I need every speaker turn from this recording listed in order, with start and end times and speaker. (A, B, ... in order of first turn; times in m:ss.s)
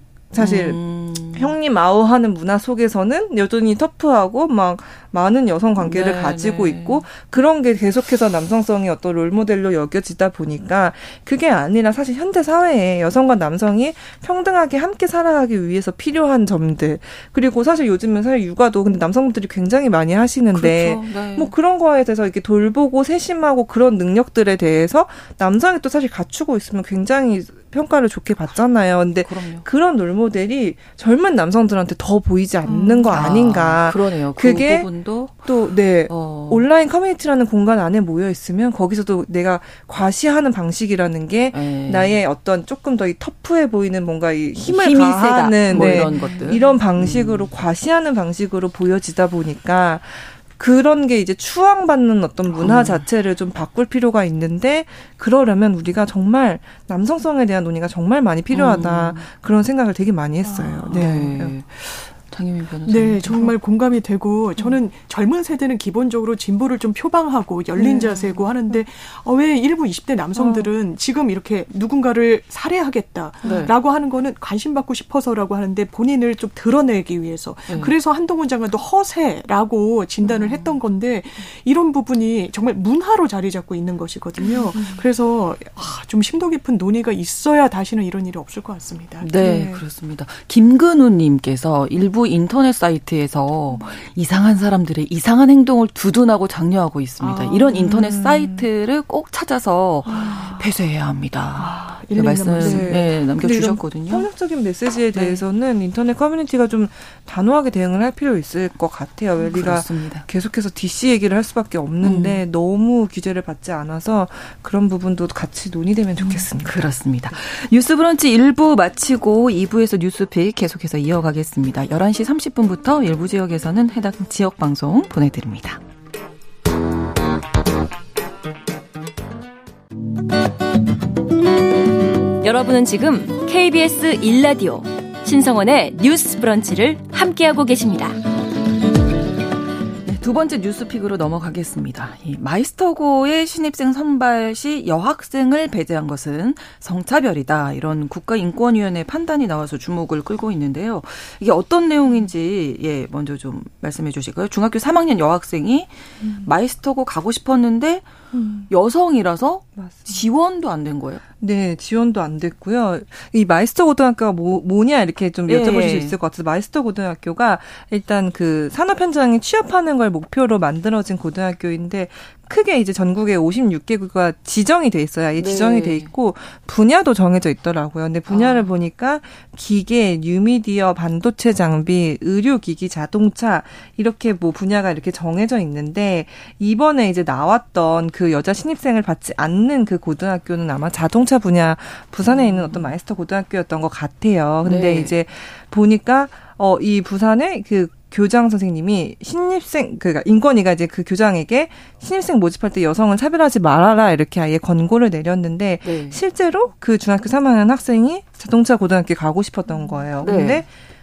0:00.3-1:01.6 A
0:00.4-0:01.5 B
0:05.8-0:07.0 B
0:20.5-0:21.5 B
0:29.2-0:29.6 B
0:32.7-0:33.1 C
0:32.7-0:35.5 B
0:36.1-0:36.7 B
0:41.5-0:42.2 B
0:44.6-0:46.1 D
0:45.7-0:47.5 B
0:46.1-0:46.5 C
0:52.5-0:53.0 B
0:58.5-0:59.3 B
1:00.4-1:01.1 C
1:00.9-1:03.6 B
1:02.8-1:29.3 C
1:07.8-1:08.5 B
1:10.4-1:10.7 B
1:13.4-1:13.7 B
1:17.7-1:17.9 B
1:20.2-1:20.8 B
1:29.2-1:44.3 B
1:29.4-1:29.8 A
1:37.2-1:37.8 C
1:37.8-1:38.7 A
1:40.1-1:40.6 C
1:40.1-1:40.5 A
1:41.6-1:42.9 C
1:42.6-1:56.8 A
1:45.1-1:45.4 B
1:49.5-1:50.2 B
1:52.0-1:52.4 B
1:56.2-2:05.8 B
2:12.4-2:18.2 D
2:20.0-2:38.1 B
2:36.2-2:36.5 A
2:38.3-2:38.7 A
2:38.7-2:41.2 B
2:39.8-2:40.2 A
2:41.4-3:30.7 A
2:45.4-2:46.2 B
2:55.4-2:56.1 B
2:58.3-2:58.7 B
3:12.3-3:12.8 B
3:14.6-3:15.1 B
3:25.8-3:26.2 B
3:30.2-3:30.6 B